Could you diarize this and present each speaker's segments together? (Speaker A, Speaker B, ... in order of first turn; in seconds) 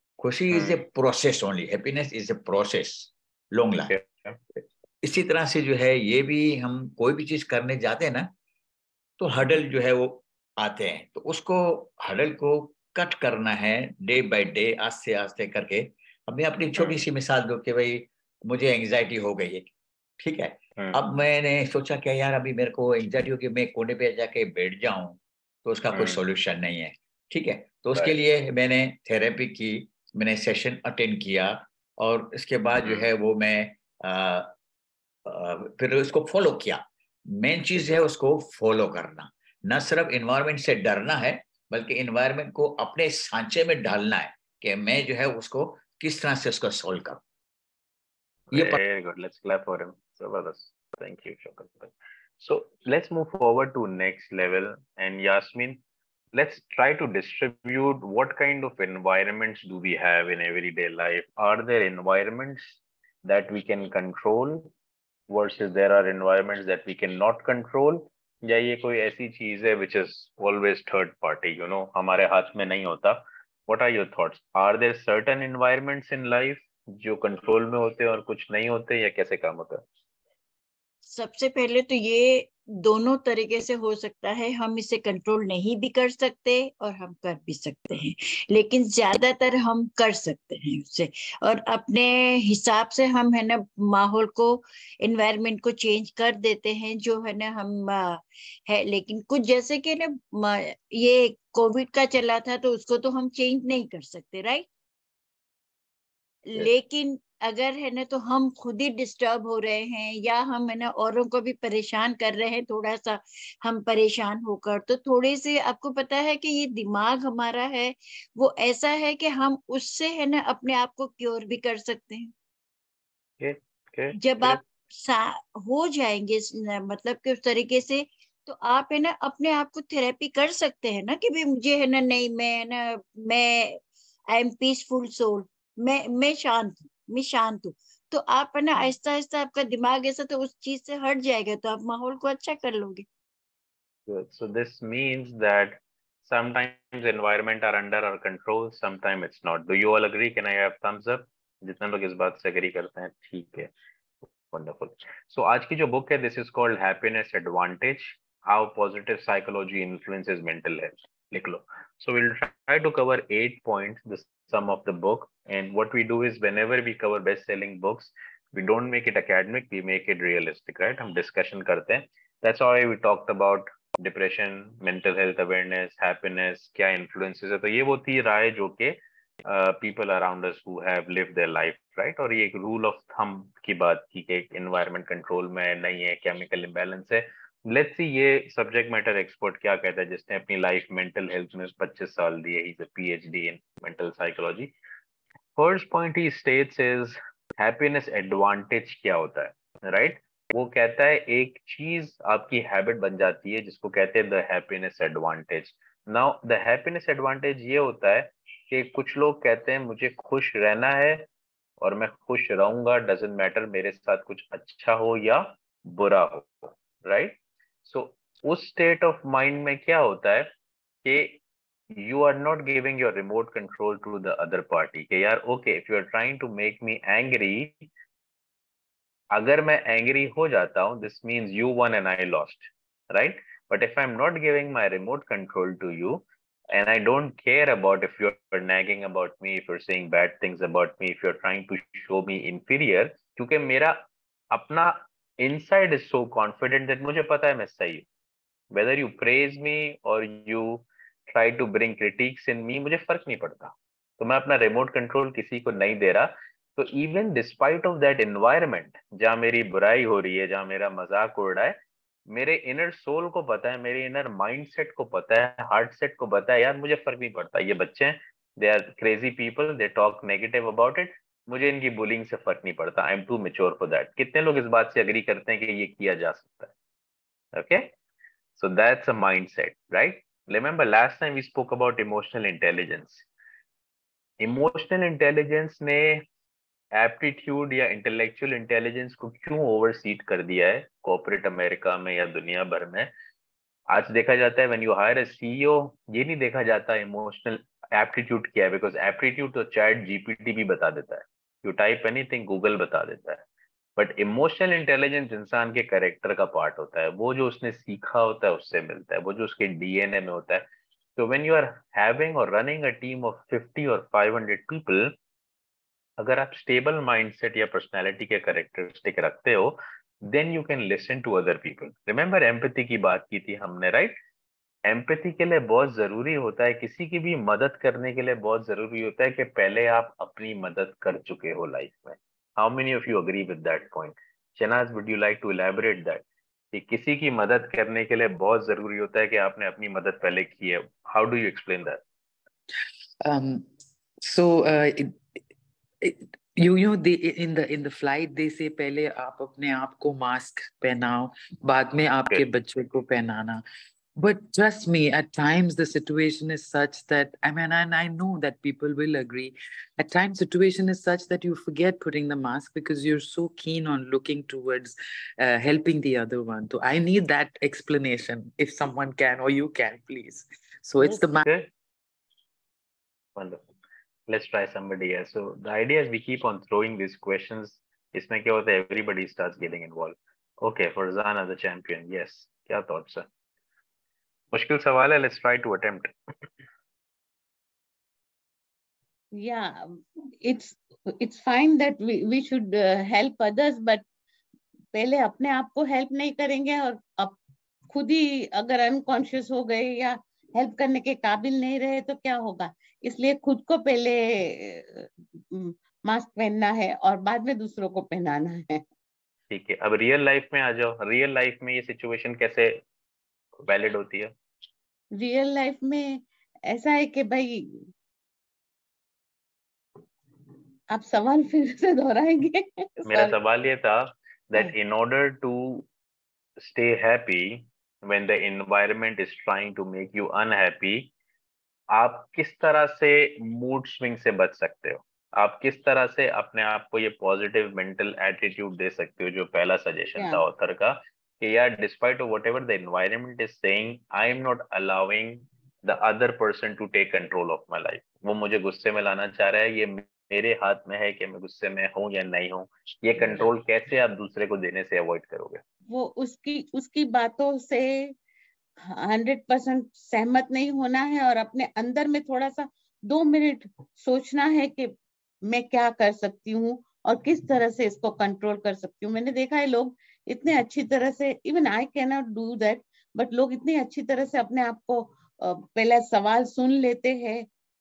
Speaker A: 0.2-4.0, 4.6-8.3, 9.2-34.5, 35.3-47.2, 48.5-48.8
Speaker B: 0.5-0.8, 3.9-4.4, 16.8-17.0, 25.9-26.2, 32.8-33.1, 48.5-55.8, 56.3-64.7, 65.3-79.8, 123.4-124.6, 144.1-153.7, 154.4-194.7, 195.6-211.3, 211.8-220.5, 221.1-221.4, 221.9-227.9, 229.3-244.0, 244.5-248.1, 248.7-261.8, 262.3-276.7, 277.5-277.9, 278.6-283.3, 284.4-286.2, 287.0-293.1, 293.9-303.4, 304.0-310.6, 311.2-315.1, 316.2-324.1, 324.9-342.0, 371.0-371.7, 373.4-373.6, 374.3-383.3, 384.5-386.1, 409.5-412.8, 413.6-414.3, 423.1-425.9, 426.6-431.1, 431.9-455.6
Speaker C: 81.1-104.7, 106.5-122.3, 124.2-143.1
Speaker D: 343.2-343.7, 344.2-345.2, 346.0-353.6, 354.2-371.4
Speaker E: 389.3-394.0, 394.9-397.4, 397.9-408.8, 415.1-417.9, 420.9-423.3, 440.2-440.4, 455.9-458.1, 458.9-464.9, 465.5-477.5